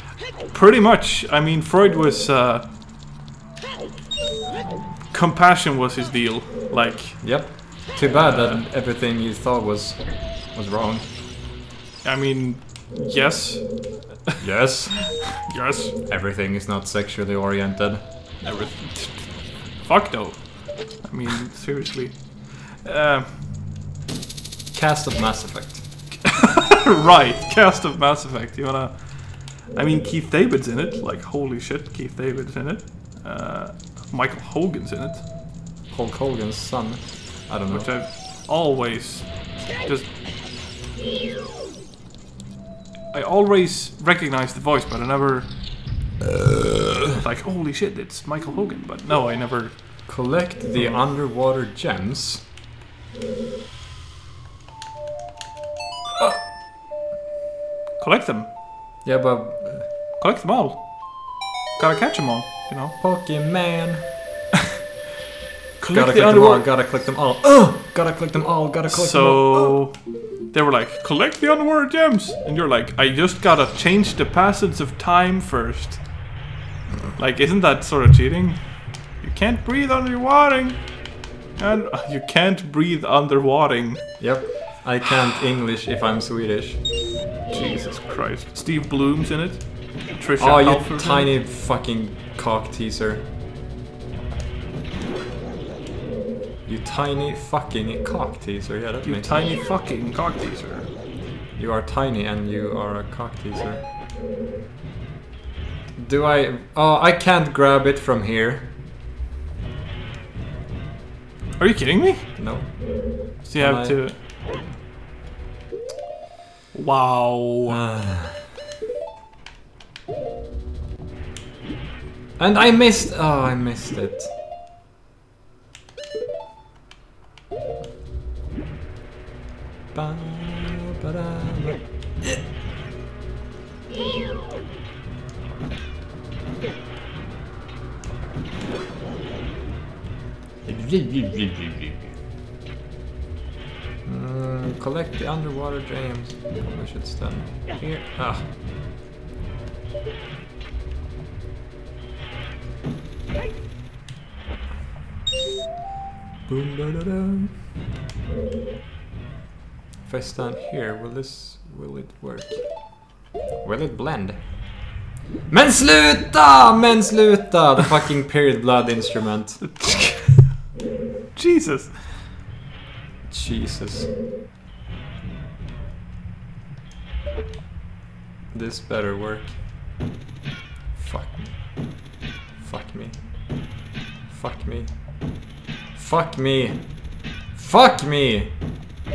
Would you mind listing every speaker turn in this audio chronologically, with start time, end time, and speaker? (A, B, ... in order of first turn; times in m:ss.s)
0:00.5-0:02.7 A
0:05.1-0:08.6 A
0:07.2-0:11.1 B
0:12.0-0:14.4 A
0:14.4-0:15.4 B
0:15.4-0:15.9 A
0:16.1-0:18.0 B
0:18.4-0:23.4 A
0:24.7-0:25.8 B
0:26.3-0:35.2 A
0:35.9-0:38.0 B
0:37.7-0:40.1 A
0:43.1-0:45.6 A
0:47.1-0:50.1 A
0:50.1-0:52.4 B
0:56.2-0:56.4 B
0:58.0-0:58.5 A
0:59.0-0:59.9 B
1:00.2-1:00.8 A
1:01.8-1:03.0 A
1:03.0-1:04.1 B
1:05.8-1:06.6 A
1:05.9-1:09.8 B
1:08.9-1:16.2 A
1:17.2-1:24.2 A
1:24.2-1:26.8 B
1:27.5-1:31.3 A
1:30.4-1:33.2 B
1:36.6-1:39.5 B
1:39.0-1:40.9 A
1:41.6-1:43.8 B
1:46.0-1:48.7 B
1:51.6-1:52.3 A
1:52.4-1:54.0 B
1:53.4-1:54.2 A
1:56.7-1:57.8 A
1:57.7-1:58.6 B
2:02.4-2:04.3 B
2:09.9-2:12.4 B
2:20.6-2:22.1 B
2:24.0-2:28.5 B
2:36.5-2:37.6 B
2:40.1-2:42.7 B
2:43.6-2:44.4 B
2:45.5-2:49.7 B
2:49.6-2:50.5 A
2:51.4-2:52.1 A
2:53.3-2:54.1 B
2:58.5-2:59.6 B
3:01.0-3:01.6 B
3:02.6-3:03.2 B
3:04.3-3:04.9 B
3:06.0-3:08.6 B